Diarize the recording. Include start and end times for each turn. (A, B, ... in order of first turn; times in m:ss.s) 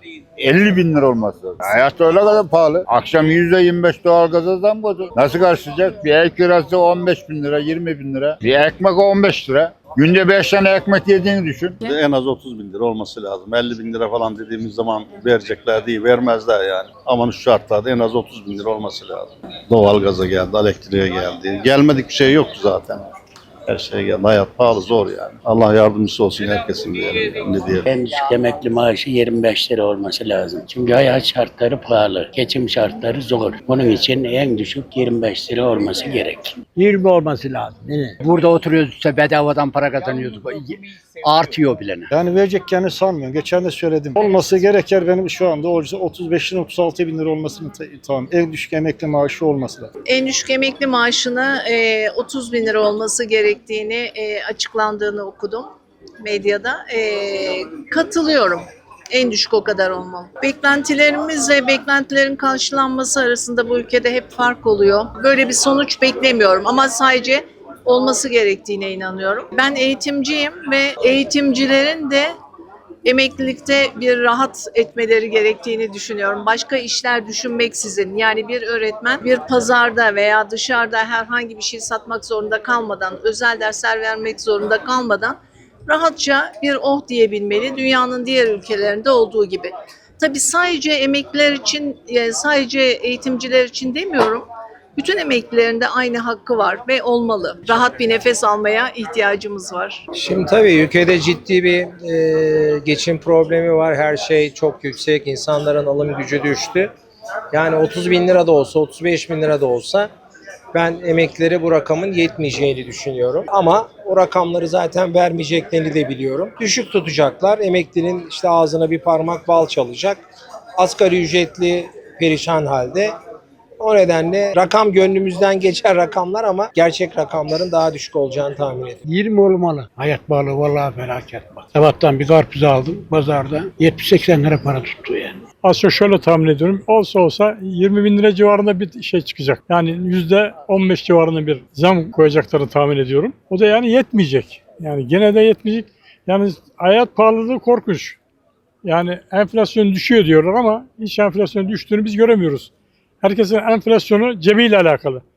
0:00.4-0:11.8 A
0:11.8-0:23.1 B
0:23.7-0:27.9 B
0:27.9-0:36.7 C
0:36.8-0:42.1 D
0:42.1-0:49.9 E
0:50.1-0:55.7 F
0:56.2-1:12.3 F
1:13.0-1:40.0 F
1:40.2-1:46.9 G
1:47.5-1:50.1 G
1:50.8-2:00.2 G
2:00.8-2:03.1 G
2:03.8-2:09.0 G
2:09.1-2:15.4 D
2:15.7-2:28.2 H
2:28.9-2:32.7 H
2:33.2-2:35.2 H